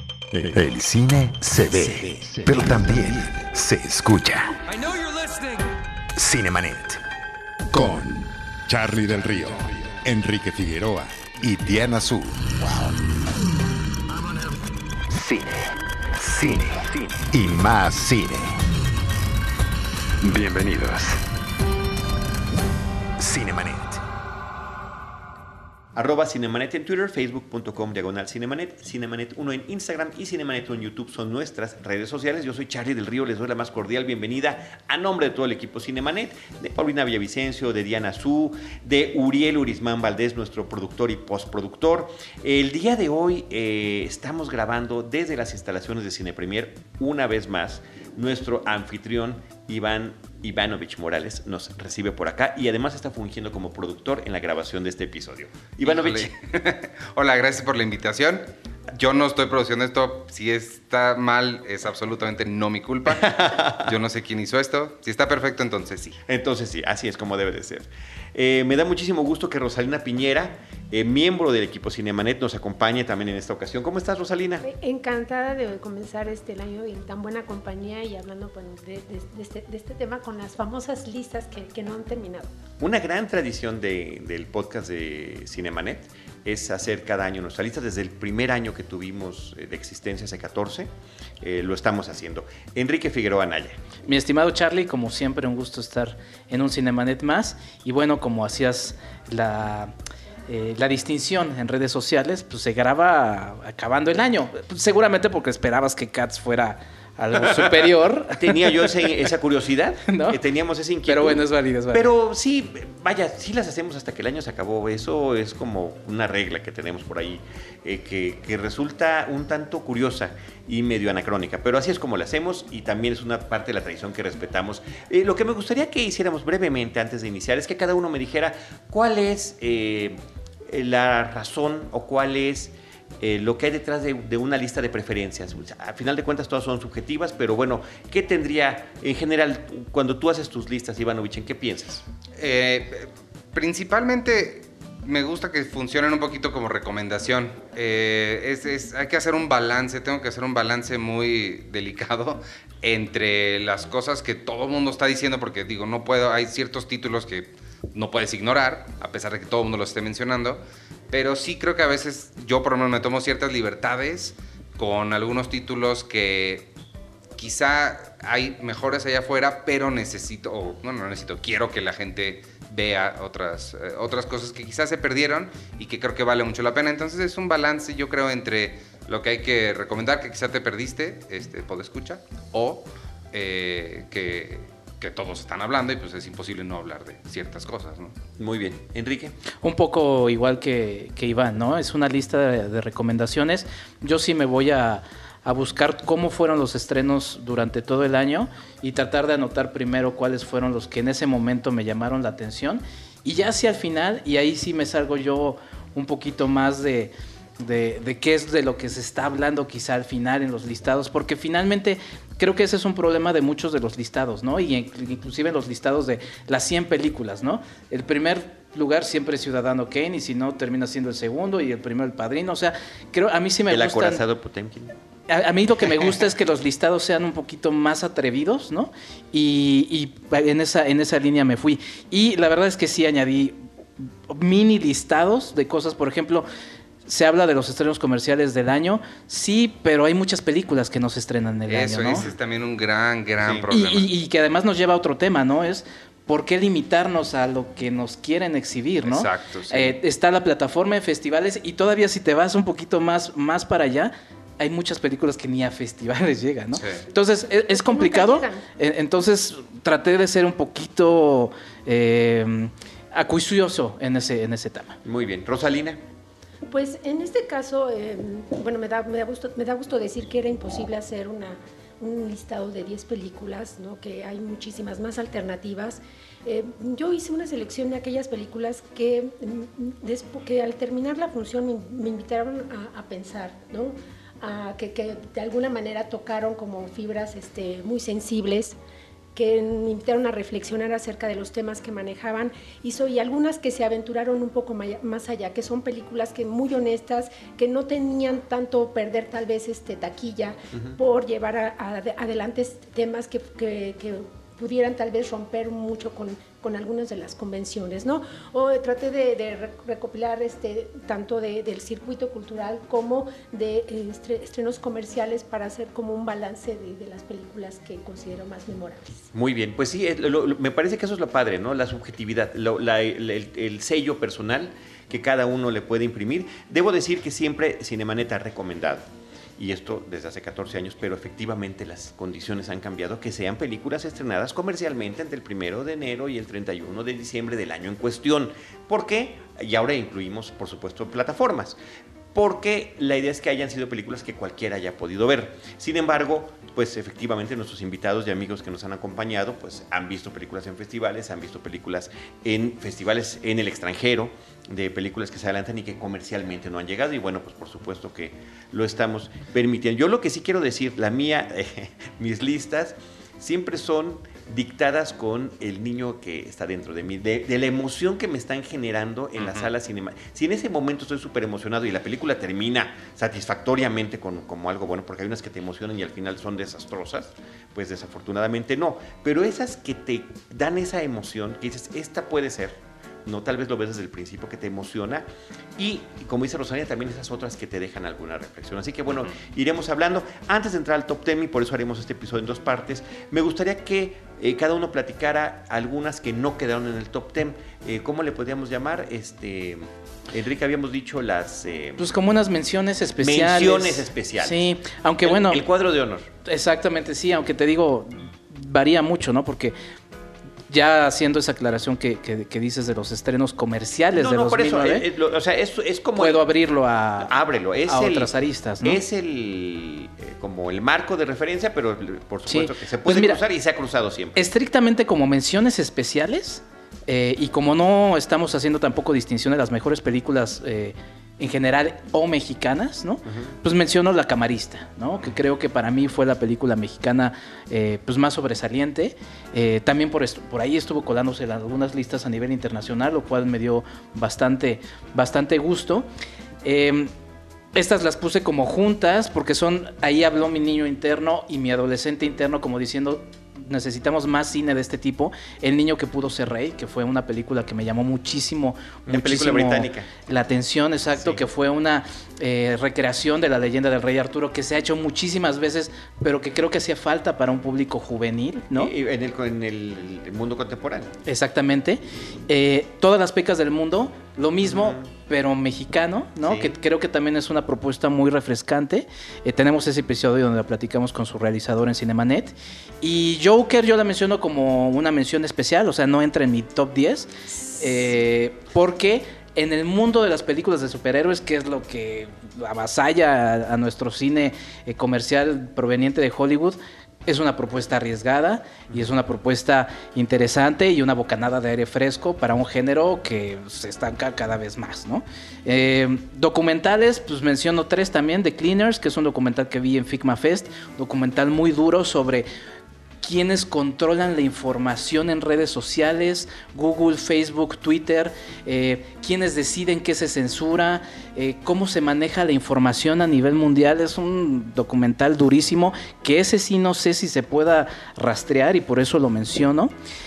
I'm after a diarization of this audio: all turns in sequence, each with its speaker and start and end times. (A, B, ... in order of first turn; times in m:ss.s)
0:00.3-0:05.6 A
0:06.2-0:07.0 A
0:07.7-0:13.0 A
0:15.1-0:18.6 A
0:20.2-0:21.2 A
0:23.2-0:24.0 A
0:26.0-0:56.3 B
0:55.8-1:06.2 C
1:03.1-1:03.9 B
1:06.3-1:14.7 B
1:14.6-1:22.5 D
1:22.8-1:30.9 B
1:31.4-1:33.8 B
1:34.1-1:39.9 E
1:40.5-1:49.1 E
1:48.4-2:22.0 B
1:50.1-1:50.4 E
1:51.1-1:52.1 E
2:22.4-2:46.7 C
2:47.4-3:08.2 C
3:08.4-3:09.4 B
3:09.6-3:44.2 E
3:43.7-3:44.9 B
3:45.3-3:53.6 E
3:54.3-3:56.5 E
3:57.0-4:02.2 E
4:01.7-4:04.1 C
4:03.4-4:03.7 B
4:03.7-4:25.0 E
4:09.0-4:10.0 C
4:17.6-4:18.6 D
4:25.0-4:26.0 B
4:26.7-4:48.8 D
4:49.4-5:19.3 D
5:00.7-5:01.0 B
5:19.3-5:29.0 B
5:29.6-5:41.8 B
5:42.3-6:25.3 B
6:09.4-6:09.7 C
6:25.8-6:42.1 B
6:42.0-6:45.6 E
6:43.2-6:44.7 B
6:45.2-6:46.3 B
6:46.4-6:49.8 E
6:50.7-6:55.1 E
6:54.2-6:56.4 B
6:56.2-6:57.3 E
6:57.2-6:58.3 B
6:57.9-6:59.0 E
6:58.8-7:04.4 B
7:02.5-7:03.4 E
7:04.4-7:26.1 E
7:13.2-7:13.6 B
7:26.6-7:27.1 E
7:27.8-7:48.9 E
7:39.1-7:40.1 B
7:48.7-7:51.1 B
7:51.3-8:32.5 E
7:54.6-7:55.1 B
7:56.4-7:56.7 B
8:33.2-8:49.9 E